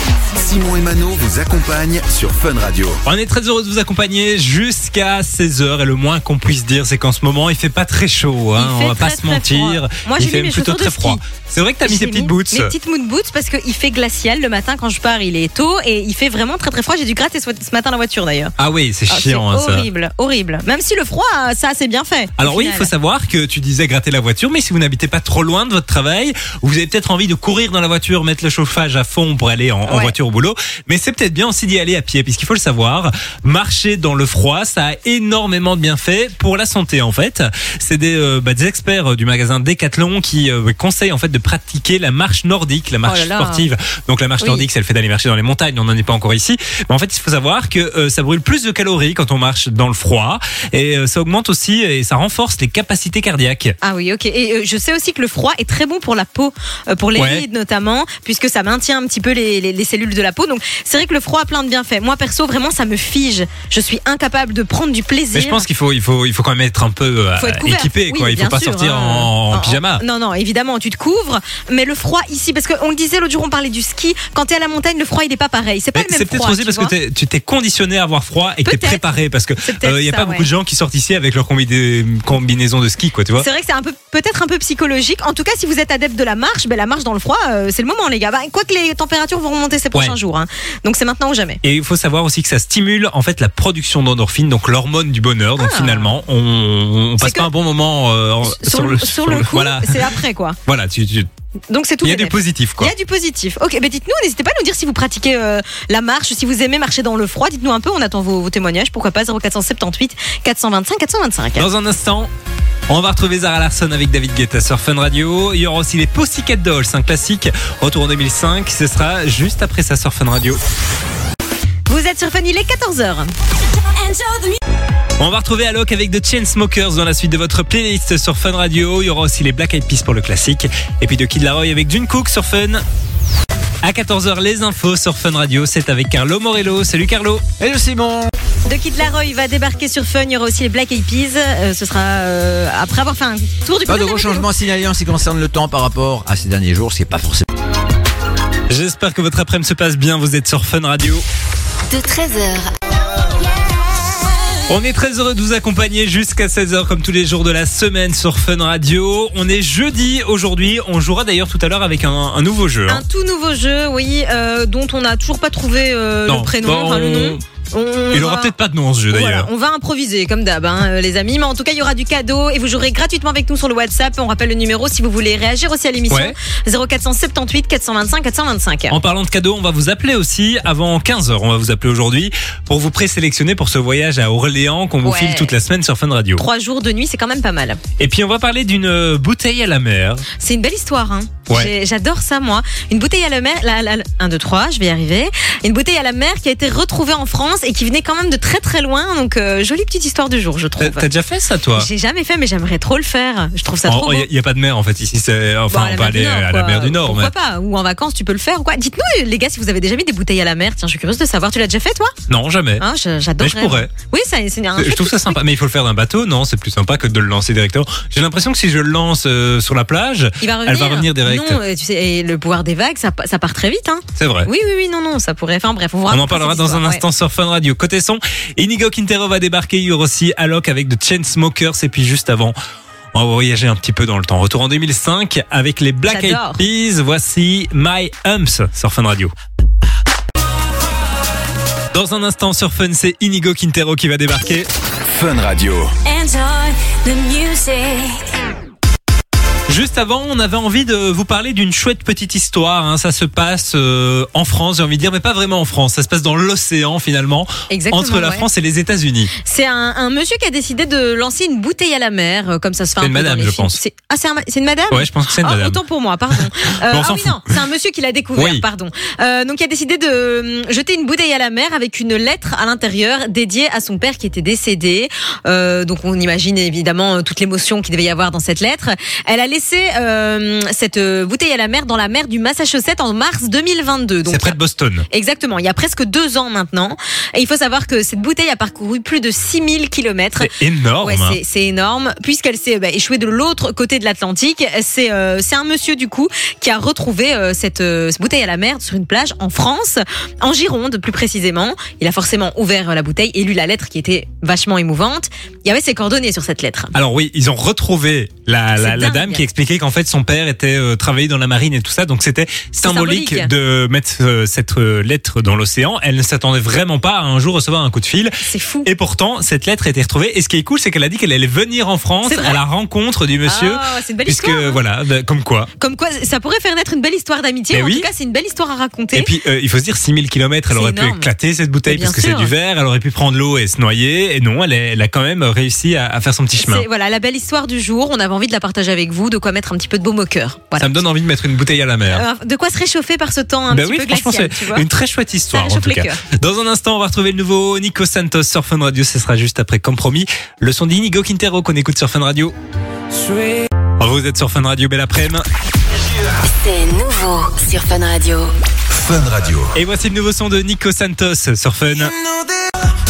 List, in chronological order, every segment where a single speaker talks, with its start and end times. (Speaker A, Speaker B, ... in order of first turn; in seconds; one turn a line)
Speaker A: 0.3-3.0
Speaker B: 3.0-12.7
Speaker C: 8.6-11.2
Speaker C: 11.8-18.5
Speaker B: 18.6-19.9
Speaker C: 19.1-22.9
Speaker B: 22.4-53.7
Speaker C: 29.9-30.1
Speaker C: 43.0-43.7
Speaker C: 44.4-44.7
Speaker C: 53.8-65.6
Speaker B: 57.2-57.4
Speaker B: 65.3-70.0
Speaker C: 67.4-76.9
Speaker B: 75.9-83.5
Speaker C: 78.6-79.0
Speaker C: 79.6-80.5
Speaker C: 83.4-91.6
Speaker B: 91.6-100.1
Speaker C: 95.6-96.1
Speaker C: 97.2-97.5
Speaker C: 98.4-100.6
Speaker B: 100.7-101.3
Speaker C: 101.7-111.7
Speaker B: 102.0-102.9
Speaker B: 111.6-112.3
Speaker B: 112.9-120.6
Speaker C: 121.9-123.3
Speaker D: 123.7-124.6
Speaker B: 125.2-132.8
Speaker B: 133.8-137.4
Speaker E: 137.6-138.3
Speaker C: 138.7-144.5
Speaker E: 143.9-147.4
Speaker B: 148.7-151.2
Speaker F: 151.9-152.7
Speaker B: 154.7-163.0
Speaker C: 162.9-168.5
Speaker B: 166.3-167.4
Speaker B: 168.1-169.5
Speaker C: 169.1-178.9
Speaker B: 176.1-176.3
Speaker B: 178.9-186.4
Speaker C: 185.0-185.5
Speaker C: 186.4-187.8
Speaker B: 188.0-190.2
Speaker C: 190.4-201.1
Speaker B: 200.8-201.9
Speaker C: 201.8-204.3
Speaker B: 203.9-207.3
Speaker C: 205.7-212.1
Speaker B: 212.3-212.8
Speaker C: 212.8-215.4
Speaker B: 213.4-213.9
Speaker B: 214.8-221.6
Speaker C: 220.4-227.0
Speaker B: 224.2-224.5
Speaker B: 226.1-232.6
Speaker B: 233.1-239.3
Speaker C: 236.1-236.6
Speaker B: 241.9-244.7
Speaker A: 245.0-245.9
Speaker D: 246.0-248.4
Speaker B: 249.7-259.3
Speaker C: 257.7-258.4
Speaker C: 259.4-284.5
Speaker B: 263.0-263.8
Speaker B: 264.9-265.8
Speaker B: 266.3-267.4
Speaker B: 268.4-268.6
Speaker B: 284.2-285.1
Speaker C: 285.1-290.5
Speaker B: 290.4-291.4
Speaker C: 291.0-306.9
Speaker B: 306.9-325.7
Speaker C: 308.8-309.4
Speaker C: 312.8-313.5
Speaker C: 318.4-318.9
Speaker C: 322.2-322.6
Speaker C: 323.4-324.8
Speaker C: 325.8-329.3
Speaker B: 327.7-328.1
Speaker B: 329.1-336.9
Speaker C: 330.7-331.3
Speaker C: 331.9-332.5
Speaker C: 336.6-341.0
Speaker B: 340.8-342.2
Speaker C: 342.1-344.9
Speaker B: 343.7-352.5
Speaker C: 345.5-346.2
Speaker B: 354.0-355.5
Speaker F: 356.4-358.5
Speaker A: 358.9-359.8
Speaker B: 359.8-362.1
Speaker A: 362.2-362.6